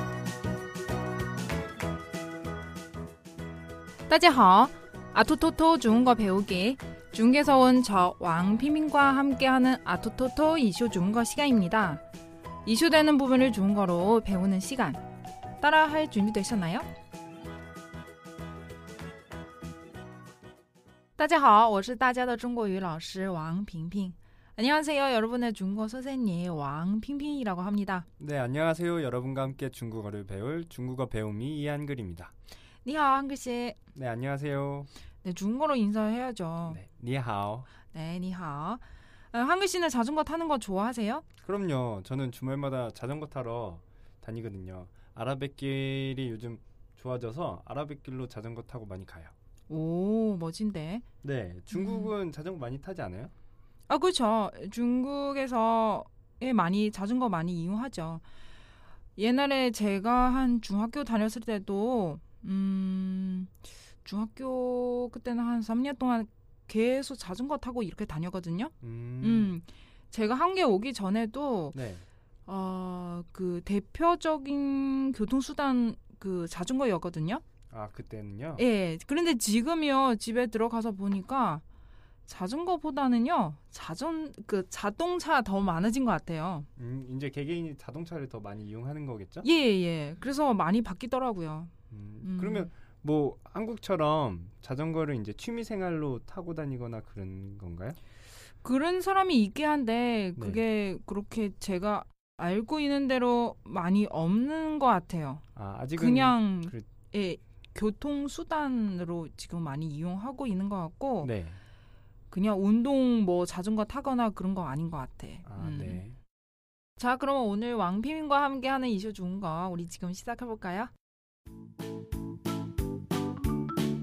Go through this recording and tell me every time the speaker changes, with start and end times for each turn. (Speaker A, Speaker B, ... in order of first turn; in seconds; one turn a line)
Speaker A: 4.1-12.0
Speaker A: 12.6-15.0
Speaker A: 15.6-16.9
Speaker A: 21.2-28.1
Speaker B: 28.2-32.3
Speaker A: 32.8-33.8
Speaker B: 33.9-34.9
Speaker A: 35.2-36.8
Speaker B: 36.7-37.7
Speaker A: 37.9-41.2
Speaker B: 41.4-49.3
Speaker A: 49.7-51.0
Speaker B: 51.2-53.3
Speaker A: 51.7-52.1
Speaker A: 53.9-58.2
Speaker A: 59.1-71.8
Speaker B: 68.8-69.5
Speaker B: 71.7-72.0
Speaker A: 72.5-77.4
Speaker B: 77.7-78.6
Speaker A: 78.5-81.6
Speaker A: 82.2-86.7
Speaker B: 86.8-89.5
Speaker A: 89.4-91.7
Speaker B: 91.9-98.0
Speaker A: 92.2-92.7
Speaker A: 98.6-105.4
Speaker B: 100.4-100.6
Speaker B: 105.5-106.8
Speaker A: 105.9-111.3
Speaker B: 111.2-111.6
Speaker A: 112.3-116.0
Speaker B: 115.5-116.2
Speaker A: 117.0-120.9